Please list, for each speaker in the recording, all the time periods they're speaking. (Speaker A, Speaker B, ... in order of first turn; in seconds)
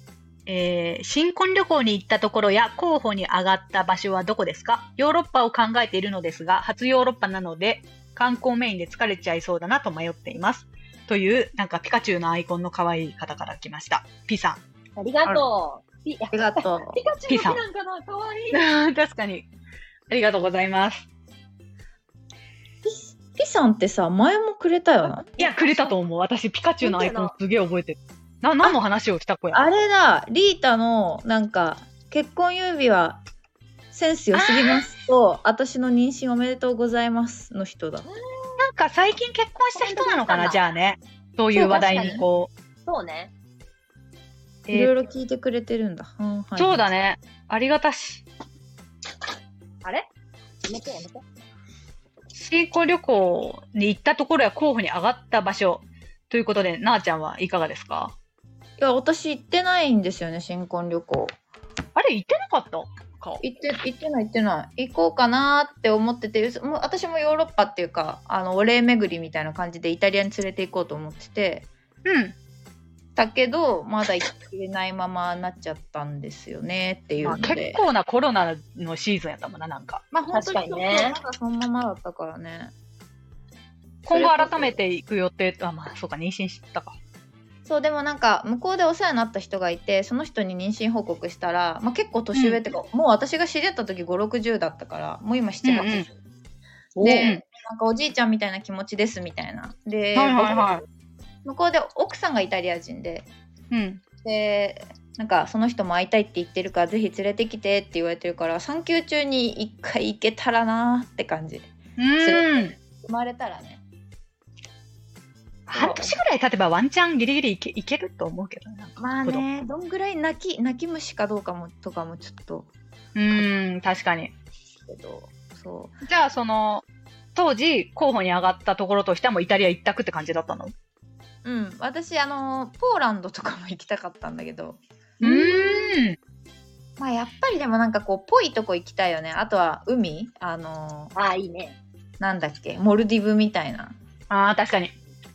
Speaker A: 0.5-14.6, 17.3-17.6, 18.5-19.5, 20.1-21.1, 25.4-29.7, 34.3-34.9, 38.6-42.5, 44.7-44.9, 46.6-48.3, 52.3-58.1, 62.0-63.4, 72.0-72.3, 77.2-80.0, 84.0-87.0, 92.3-92.6, 95.6-96.1, 97.1-97.4, 100.2-100.8, 103.7-104.0, 112.0-112.8, 115.7-119.4, 123.2-124.3, 126.0-126.8, 127.3-130.7, 135.2-136.2, 144.3-144.9
Speaker B: 15.0-18.7, 25.1-25.5, 26.8-27.4, 38.0-38.6, 39.7-40.6, 42.9-43.3, 50.6-51.2, 80.3-81.2, 97.0-97.3, 141.2-141.8
Speaker C: 16.3-17.0, 22.8-25.9, 29.5-33.2, 33.9-38.1, 41.5-42.2, 44.7-46.9, 58.8-61.3, 63.4-71.7, 73.2-77.8, 80.1-82.7, 84.1-84.8, 87.7-96.1, 97.0-100.8, 101.5-103.3, 104.2-113.8, 115.7-116.1, 119.0-122.7, 124.9-126.0, 131.4-136.0, 137.0-141.1, 142.2-144.0